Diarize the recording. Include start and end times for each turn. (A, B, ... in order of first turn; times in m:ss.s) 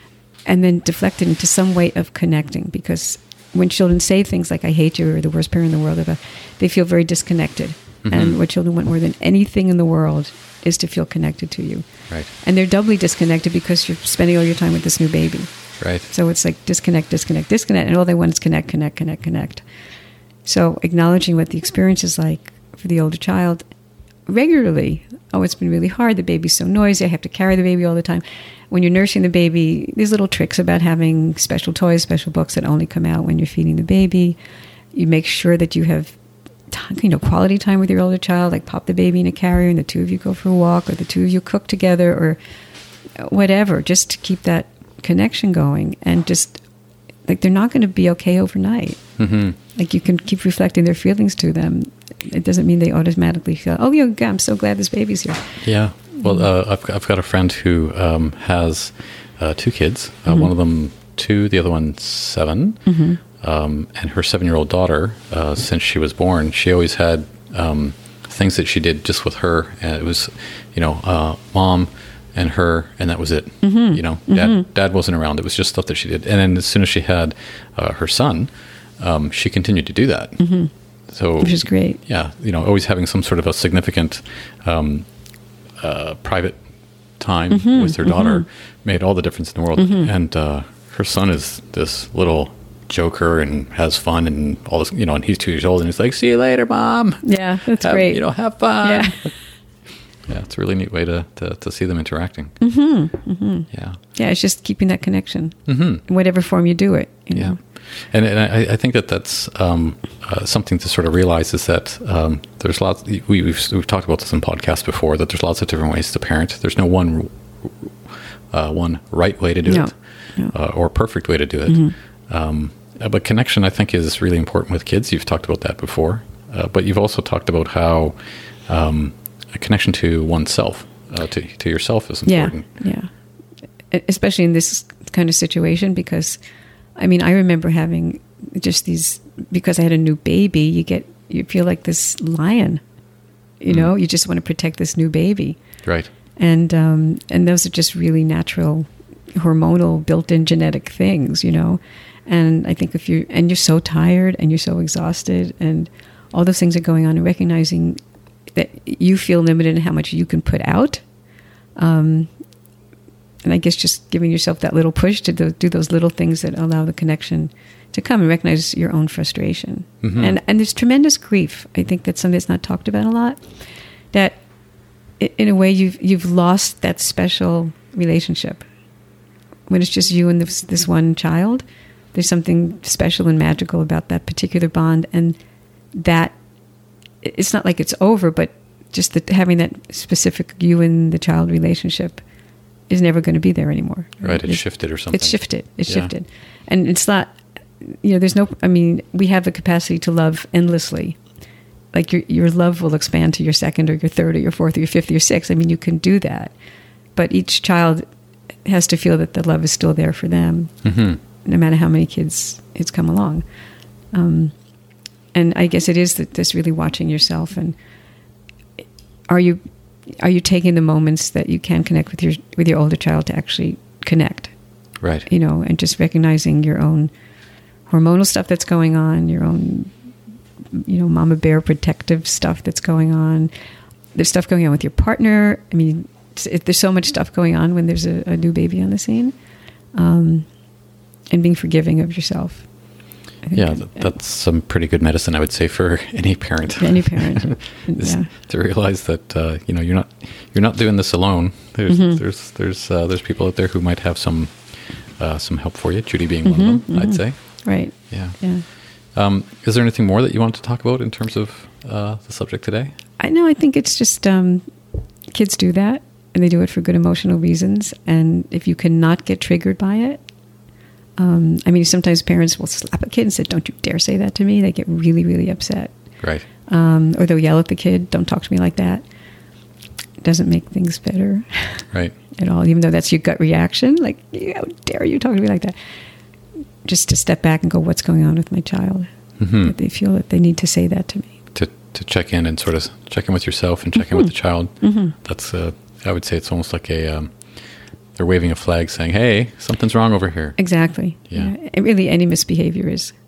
0:00.4-0:19.6 A
0:08.0-0:08.4 B
0:15.8-0:16.1 B
0:20.4-0:23.6 A
0:24.2-0:34.4 A
0:34.9-0:36.2 A
0:36.7-0:42.4 A
0:43.2-0:46.6 A
0:47.2-0:49.0 A
0:49.2-0:49.6 B
0:49.7-0:55.6 A
0:55.6-1:02.8 B
1:02.8-1:03.2 A
1:03.4-1:20.5 B
1:13.6-1:14.6 A
1:20.4-1:20.7 A
1:21.1-1:25.1 B
1:21.4-1:22.0 A
1:25.8-1:26.6 B
1:27.2-1:39.3 B
1:27.5-1:28.4 A
1:29.8-1:30.1 A
1:37.2-1:39.2 A
1:40.3-1:42.6 B
1:42.6-1:47.6 A
1:43.7-1:44.0 B
1:45.7-1:46.0 B
1:47.3-2:12.6 B
1:59.7-2:00.5 A
2:01.7-2:01.9 A
2:12.2-2:13.1 A
2:13.9-2:16.4 A
2:17.0-2:22.8 A
2:23.6-2:25.6 A
2:25.8-2:26.1 B
2:26.4-2:38.0 A
2:38.5-2:41.0 A
2:41.8-2:42.3 A
2:43.4-2:53.4 A
2:50.0-2:50.4 B
2:54.1-2:54.4 A
2:55.2-2:58.6 A
2:59.7-3:05.4 A
3:05.9-3:06.3 A
3:07.2-3:12.2 A
3:12.9-3:21.2 A
3:14.2-3:16.1 B
3:21.9-3:26.5 A
3:27.2-3:28.0 A
3:28.6-3:33.4 A
3:30.8-3:31.2 B
3:34.1-3:34.5 A
3:35.3-3:37.7 A
3:39.3-3:44.5 A
3:45.0-3:45.3 B
3:45.2-3:47.1 A
3:47.9-3:49.9 A
3:50.7-3:53.5 A
3:54.1-3:59.3 A
3:59.9-4:00.5 A
4:01.3-4:02.7 A
4:03.4-4:04.1 A
4:03.5-4:22.9 B
4:06.8-4:08.3 A
4:11.9-4:12.2 A
4:16.4-4:18.6 A
4:23.2-4:24.6 A
4:25.3-4:30.2 A
4:31.2-4:35.9 A
4:36.2-4:36.4 B
4:36.7-4:39.0 A
4:40.2-4:45.7 A
4:46.8-4:51.3 A
4:49.4-4:49.7 B
4:51.5-5:01.5 B
4:54.8-4:55.2 A
5:00.6-5:03.2 A